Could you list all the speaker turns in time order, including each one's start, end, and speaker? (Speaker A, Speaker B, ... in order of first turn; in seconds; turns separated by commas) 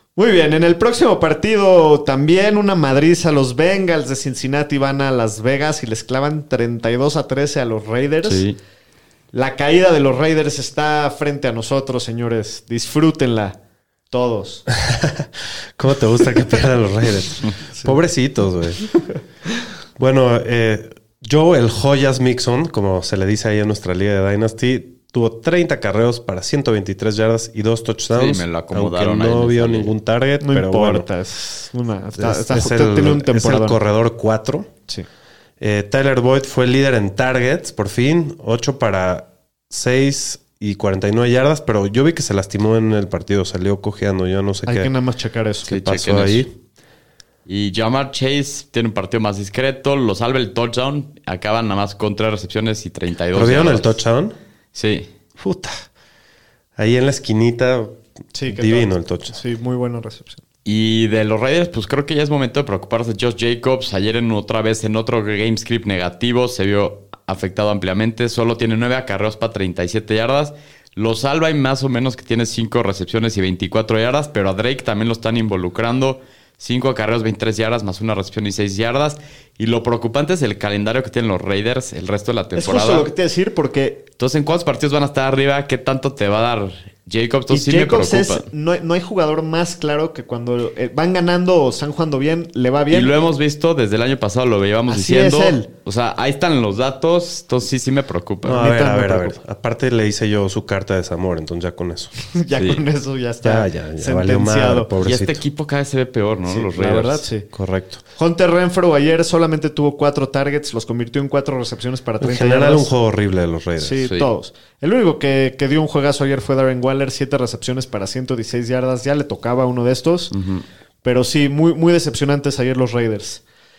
Speaker A: 0.2-8.4, Speaker B: 8.2-8.6, Speaker A: 9.3-13.6, Speaker A: 14.1-14.7, Speaker C: 14.7-18.9, Speaker C: 20.0-31.1, Speaker B: 28.1-29.9, Speaker A: 30.4-33.8, Speaker C: 32.2-34.7, Speaker C: 35.6-44.9, Speaker A: 44.7-45.8, Speaker C: 45.7-46.5, Speaker B: 45.7-46.5, Speaker B: 47.5-54.0, Speaker C: 53.3-54.4, Speaker B: 54.7-55.1, Speaker C: 55.4-55.8, Speaker C: 56.8-59.4, Speaker A: 58.3-60.4, Speaker B: 60.6-83.1, Speaker A: 82.5-84.0, Speaker B: 84.2-88.5, Speaker A: 87.5-93.1, Speaker B: 92.9-98.6, Speaker A: 94.9-95.7, Speaker C: 98.4-102.1, Speaker A: 98.5-99.4, Speaker A: 102.2-104.9, Speaker B: 102.6-102.8, Speaker C: 103.4-105.4, Speaker B: 105.0-107.3, Speaker A: 106.5-107.5, Speaker C: 107.5-108.0, Speaker A: 108.2-112.9, Speaker C: 112.2-114.0, Speaker A: 113.8-120.3, Speaker B: 120.3-120.6, Speaker A: 121.0-123.4